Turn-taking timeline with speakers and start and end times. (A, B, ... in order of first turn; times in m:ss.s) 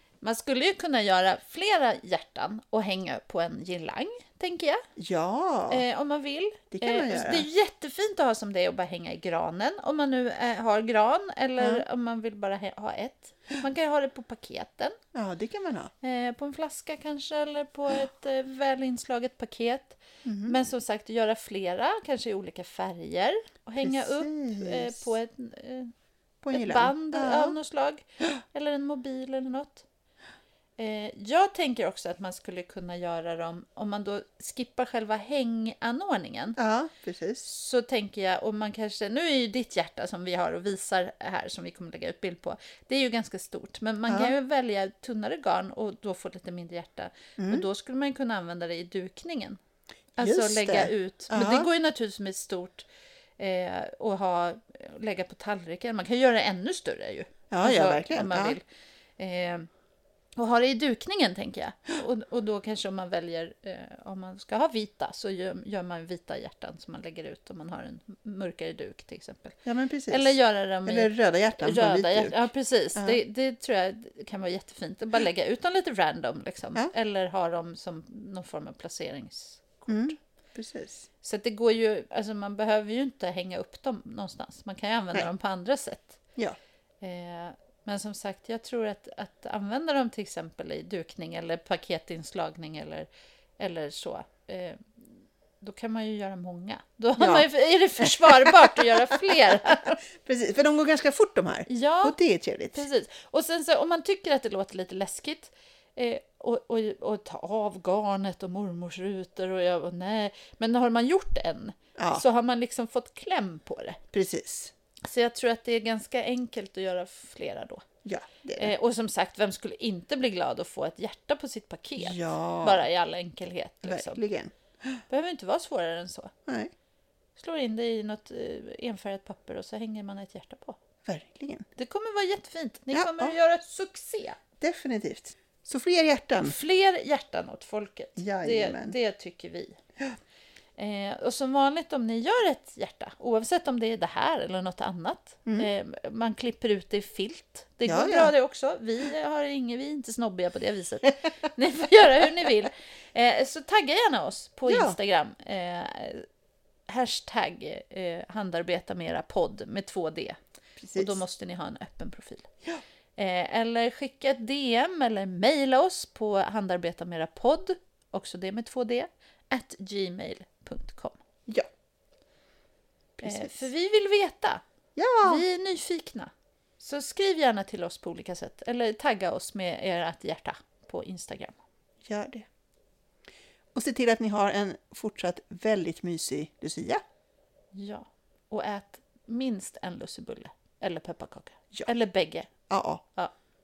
0:00.2-0:04.8 A
0:05.0-0:05.8 B
0:05.7-0:15.0 A
0:06.7-0:07.5 B
0:11.6-0:11.8 B
0:15.1-0:15.9 B
0:16.0-0:25.9 A
0:20.2-0:20.6 B
0:23.8-0:25.0 B
0:26.4-0:27.6 B
0:26.5-0:29.8 A
0:30.8-0:36.6 A
0:36.6-0:37.5 B
0:37.4-0:49.6 A
0:44.1-0:44.3 B
0:47.4-0:47.6 B
0:50.2-0:52.9 A
0:50.2-0:51.7 B
0:53.4-0:58.6 A
0:57.5-0:58.6 B
0:59.2-0:59.7 A
1:00.4-1:09.6 A
1:09.6-1:13.2 B
1:10.1-1:20.2 A
1:19.9-1:21.1 B
1:21.2-1:26.2 A
1:27.0-1:33.1 A
1:33.6-1:40.0 A
1:37.2-1:37.5 B
1:38.0-1:42.8 B
1:41.7-1:42.2 A
1:42.7-1:54.0 A
1:52.0-1:52.2 B
1:54.1-1:54.7 B
1:55.0-1:57.8 A
1:58.0-1:58.7 B
1:58.6-2:04.2 A
2:02.0-2:02.8 B
2:03.8-2:04.5 B
2:05.1-2:06.3 A
2:06.5-2:06.7 B
2:07.4-2:10.8 A
2:11.0-2:11.6 B
2:11.8-2:14.4 A
2:12.9-2:13.4 B
2:14.6-2:16.6 B
2:16.4-2:19.8 A
2:18.2-2:19.0 B
2:20.8-2:36.2 A
2:27.8-2:28.3 B
2:34.7-2:35.0 B
2:36.9-2:40.4 A
2:40.8-2:41.2 B
2:40.9-2:42.5 A
2:43.2-2:51.2 A
2:53.2-2:53.7 B
2:53.2-2:54.6 A
2:55.0-2:55.4 B
2:55.2-3:01.6 A
3:02.0-3:02.4 B
3:03.7-3:07.0 B
3:07.7-3:12.5 A
3:12.7-3:13.0 B